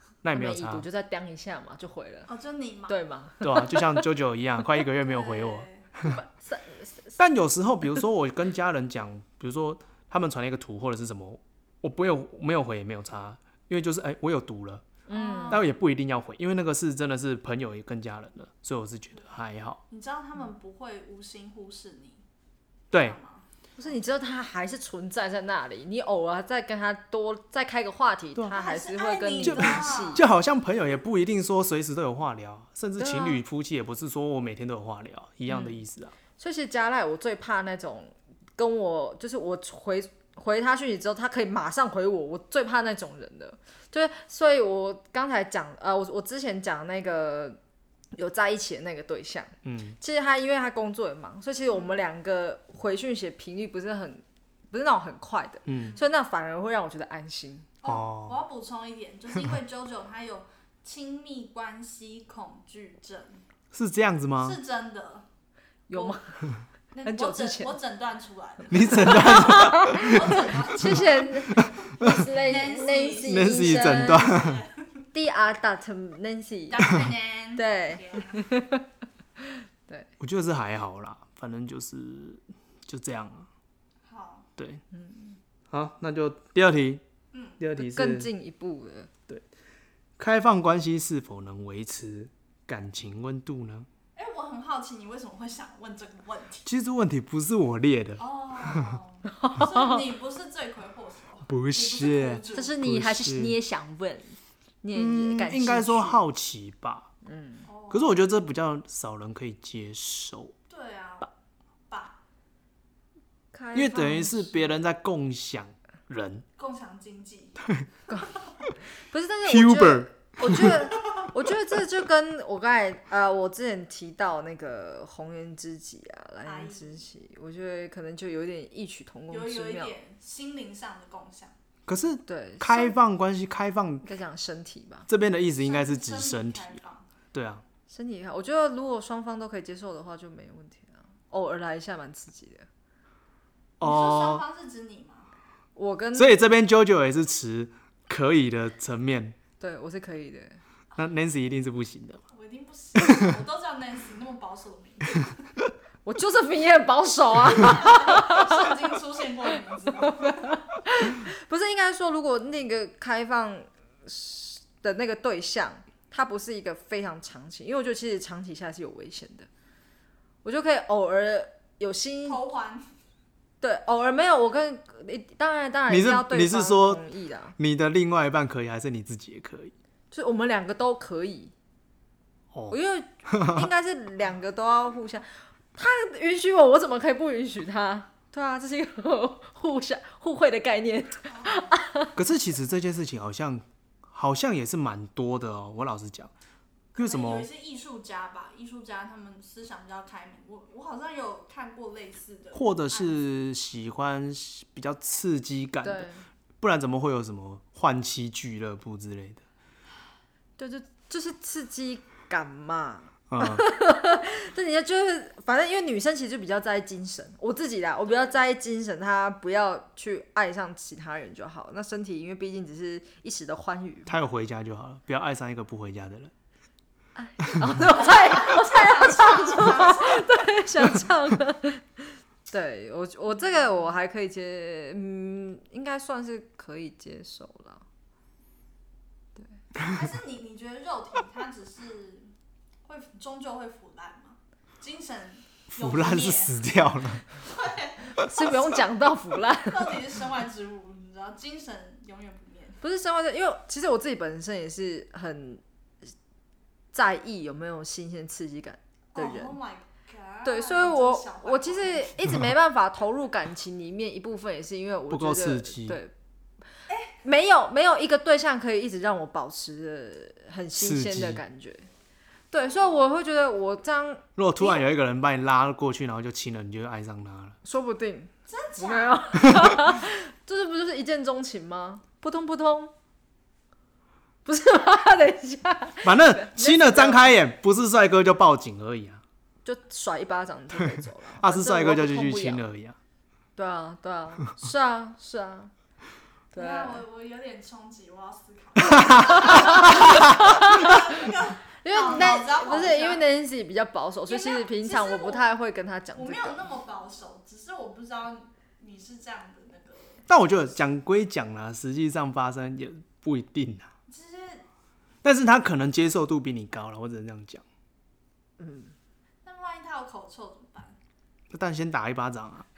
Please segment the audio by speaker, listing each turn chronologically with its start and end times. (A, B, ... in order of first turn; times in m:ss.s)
0:00.2-0:00.8 A
0:00.3-0:02.3 B
0:02.3-0:03.0 C
0:02.9-0:04.0 B
0:03.4-0:06.2 A
0:05.0-0:05.8 C
0:06.0-0:07.2 B
0:07.2-0:14.8 A
0:15.1-0:15.6 B
0:15.1-0:15.6 C
0:15.5-0:19.8 A
0:19.9-0:22.2 C
0:22.9-0:23.2 A
0:22.9-0:23.4 C
0:23.8-0:30.2 B
0:28.5-0:30.2 C
0:29.4-0:36.1 A
0:33.0-0:33.4 B
0:35.5-0:35.8 B
0:36.4-0:47.6 B
0:48.1-0:57.7 B
0:49.6-0:50.0 A
0:55.6-0:55.9 A
0:57.8-1:03.4 C
0:57.8-0:58.4 A
1:03.7-1:04.6 A
1:04.4-1:05.2 C
1:05.9-1:06.2 B
1:05.9-1:06.2 C
1:06.9-1:11.6 C
1:07.0-1:07.7 B
1:08.7-1:12.3 A
1:09.0-1:14.3 B
1:12.2-1:14.8 C
1:13.2-1:14.6 A
1:15.1-1:16.9 B
1:16.7-1:18.4 C
1:17.5-1:18.8 B
1:19.4-1:20.1 B
1:20.2-1:23.5 A
1:24.0-1:24.5 C
1:24.6-1:24.8 A
1:24.9-1:25.4 B
1:25.7-1:27.0 A
1:27.3-1:27.6 C
1:27.6-1:28.3 A
1:27.8-1:29.1 B
1:30.2-1:33.9 A
1:34.2-1:36.6 C
1:36.6-1:39.0 A
1:38.2-1:42.8 C
1:39.4-1:39.9 B
1:41.5-1:43.6 A
1:42.5-1:46.2 B
1:44.9-1:47.1 A
1:47.2-1:47.7 B
1:47.6-1:48.2 C
1:47.9-1:50.5 A
1:50.7-1:51.3 C
1:51.9-1:52.2 C
1:53.5-1:54.7 B
1:53.7-1:56.4 A
1:56.6-1:57.6 C
1:57.6-1:57.9 A
1:59.1-2:09.9 B
1:59.4-2:01.2 A
2:06.4-2:07.0 C
2:09.3-2:11.5 C
2:11.9-2:14.1 A
2:12.2-2:13.0 B
2:14.0-2:15.1 B
2:15.1-2:16.8 A
2:15.6-2:17.1 C
2:17.3-2:17.6 A
2:17.9-2:22.7 B
2:23.8-2:24.4 A
2:23.8-2:25.3 C
2:25.8-2:26.4 B
2:26.1-2:29.4 A
2:29.6-2:30.6 B
2:31.0-2:32.2 A
2:32.3-2:35.3 C
2:36.0-2:38.8 B
2:37.6-2:40.6 C
2:40.2-2:49.5 B
2:50.4-2:52.4 B
2:52.2-2:52.8 C
2:53.6-2:57.6 B
2:55.9-2:57.0 A
2:57.6-2:59.7 A
3:00.1-3:01.5 B
3:02.5-3:03.7 A
3:02.7-3:12.1 B
3:11.3-3:11.7 C
3:12.2-3:16.3 A
3:16.9-3:17.5 A
3:16.9-3:23.2 C
3:22.5-3:26.1 A
3:25.8-3:26.2 B
3:26.6-3:29.4 A
3:30.6-3:44.1 B
3:33.3-3:33.6 A
3:38.1-3:38.3 C
3:44.1-3:46.3 A
3:47.2-3:57.8 B
3:48.0-3:50.3 C
3:53.3-3:53.9 C
3:59.8-4:02.3 C
4:02.8-4:06.5 C
4:05.7-4:07.2 A
4:07.4-4:08.0 C
4:08.2-4:10.0 B
4:09.6-4:12.8 C
4:12.8-4:15.6 B
4:16.9-4:19.6 B
4:19.1-4:22.1 C
4:20.4-4:26.1 B
4:25.1-4:26.0 A
4:26.9-4:27.1 C
4:27.2-4:31.9 B
4:30.8-4:31.4 A
4:32.5-4:34.8 B
4:32.6-4:33.1 C
4:34.4-4:37.6 A
4:37.6-4:42.9 B
4:38.5-4:39.4 C
4:39.5-4:39.8 A
4:44.4-4:47.3 B
4:46.0-4:49.2 A
4:49.6-4:52.6 B
4:50.8-4:53.0 A
4:53.6-4:55.7 B
4:56.5-4:57.0 B
4:56.5-5:03.2 C
4:59.0-5:06.7 B
5:00.1-5:00.4 A
5:04.3-5:05.4 C
5:06.1-5:10.2 C
5:10.3-5:13.9 A
5:14.1-5:14.6 C
5:15.2-5:17.6 A
5:18.6-5:18.9 B
5:19.4-5:21.0 C
5:21.5-5:22.7 A